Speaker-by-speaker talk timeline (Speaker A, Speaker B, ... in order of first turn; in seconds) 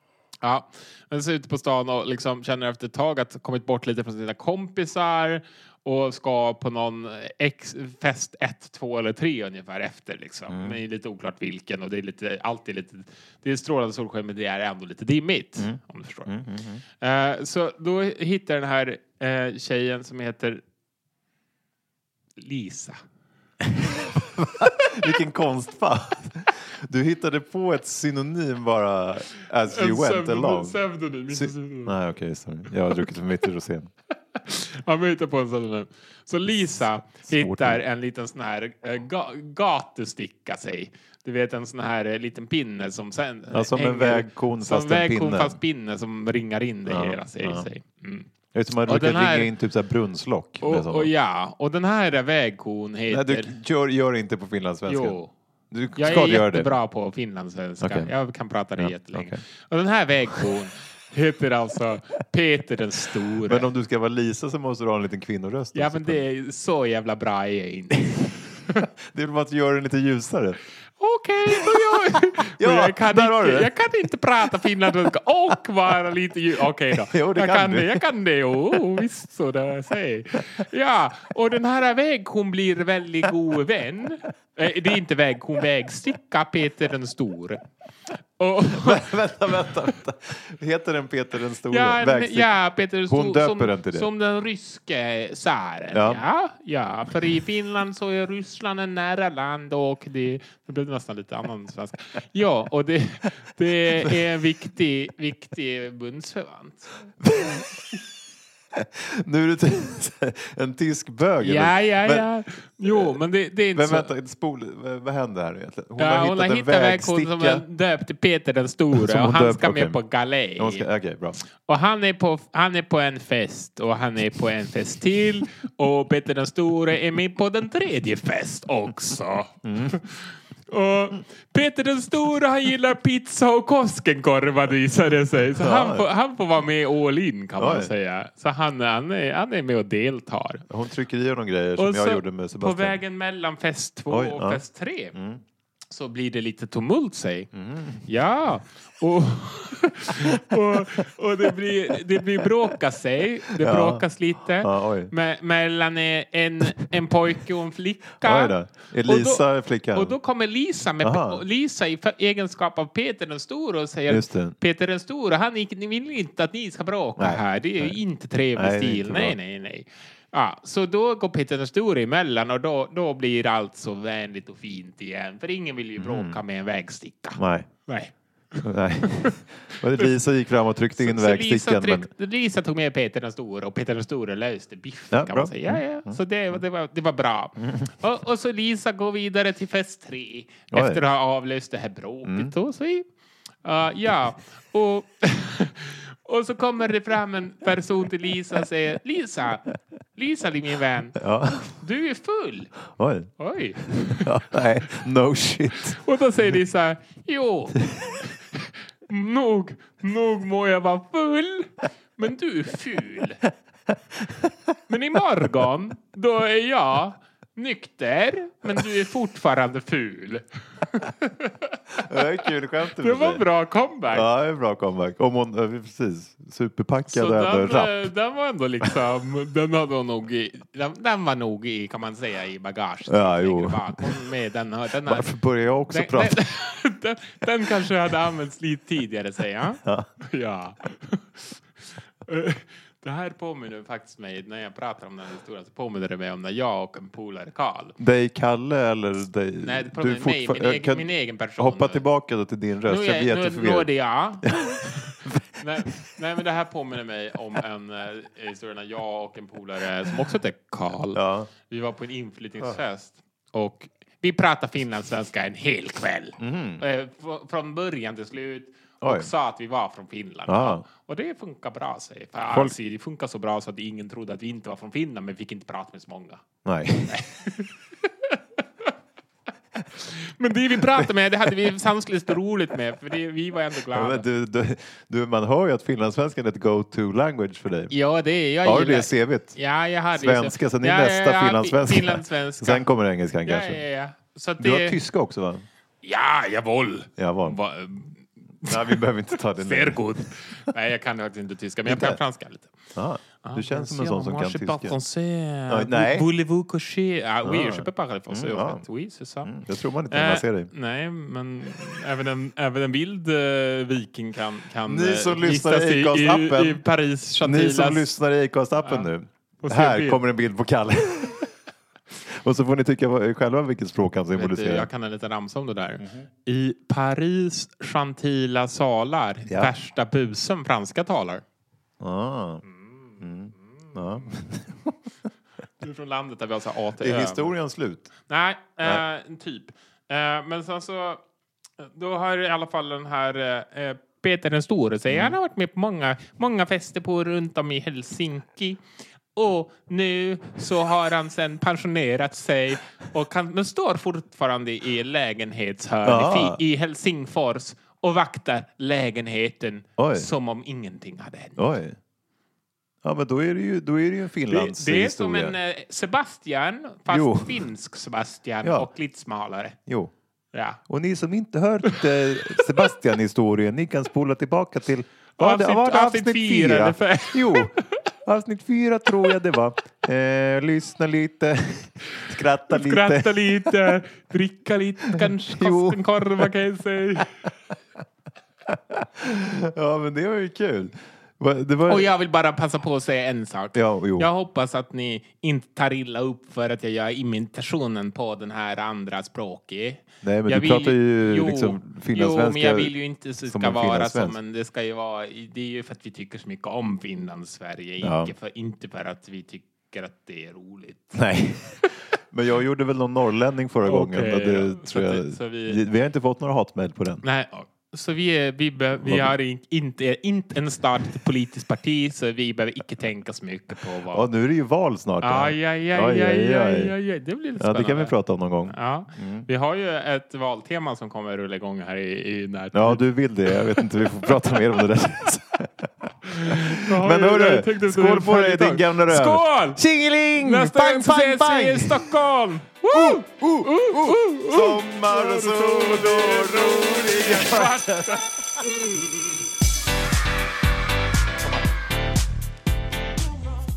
Speaker A: 0.4-16.3, 17.0-20.6, 22.4-22.9, 29.7-31.9, 34.3-48.3, 48.8-49.5, 50.6-53.5, 54.9-55.3, 56.0-63.7, 65.7-68.9, 71.0-87.6, 88.4-89.8, 91.7-107.6, 111.4-114.1, 116.0-120.9, 121.6-140.6, 141.8-145.1, 145.9-147.5, 148.1-179.3, 181.0-193.0, 193.6-202.8, 203.4-204.9, 205.7-213.4, 214.9-221.8, 222.8-224.3, 227.1-235.3, 235.9-241.6, 242.2-247.9, 249.6-252.1, 252.8-276.4, 277.0-278.9, 279.9-284.2, 287.9-292.9, 293.4-295.0, 296.0-299.0, 299.6-302.7, 303.4-309.6, 310.1-318.1, 318.8-319.1, 319.6-320.2, 324.3-331.4, 332.7-334.2, 335.8-337.6, 338.3-341.2, 341.8-348.8, 349.3-361.7, 364.5-369.8, 370.5-370.8, 371.9-372.9, 375.4-377.9, 382.7-387.5, 391.9-411.2, 413.8-415.8, 417.2-424.3, 425.2-428.1, 428.7-434.8, 436.2-439.8, 440.4-448.4
Speaker B: 10.5-10.8, 15.6-16.8, 24.0-33.9, 36.5-37.8, 43.5-45.6, 46.9-47.7, 48.5-51.1, 53.1-55.2, 55.7-56.7, 57.8-58.1, 58.8-59.4, 63.4-66.2, 69.1-70.6, 72.5-73.7, 76.9-78.0, 88.7-94.1, 95.9-96.2, 107.2-107.6, 108.8-112.3, 112.8-113.2, 113.7-117.6, 118.9-120.0, 120.5-121.4, 129.6-130.0, 135.6-136.1, 137.6-137.9, 140.7-143.0, 144.1-144.6, 145.1-145.4, 147.5-148.1, 153.6-154.1, 154.6-155.1, 158.2-160.2, 161.0-161.4, 164.1-164.6, 167.2-168.0, 168.5-169.3, 176.0-176.4, 177.3-177.7, 178.6-182.1, 185.1-186.6, 187.6-187.9, 190.7-191.0, 192.2-192.5, 201.2-201.7, 202.9-203.3, 204.2-206.0, 221.9-223.4, 224.1-228.1, 233.1-234.1, 235.0-236.4, 239.8-240.1, 248.0-255.4, 261.1-261.5, 266.4-266.8, 269.0-269.3, 270.5-270.8, 276.6-277.2, 283.9-287.9, 288.6-289.6, 290.1-293.8, 294.6-295.6, 297.2-297.6, 298.6-300.2, 301.9-302.2, 302.9-305.0, 305.7-306.3, 307.4-308.9, 309.4-310.7, 314.9-316.8, 317.4-321.5, 322.2-324.9, 326.0-326.3, 329.5-329.7, 332.0-332.6, 333.2-334.9, 337.0-338.1, 345.1-345.4, 356.0-356.6, 360.0-360.3, 361.6-361.9, 363.0-365.6, 367.1-367.6, 368.6-368.9, 369.9-370.1, 370.9-383.9, 385.1-386.5, 388.6-392.1, 393.7-394.3, 400.2-404.4, 408.0-408.3, 411.1-417.2, 419.0-419.3, 424.1-426.9, 427.6-429.5, 432.7-442.1, 442.9-448.2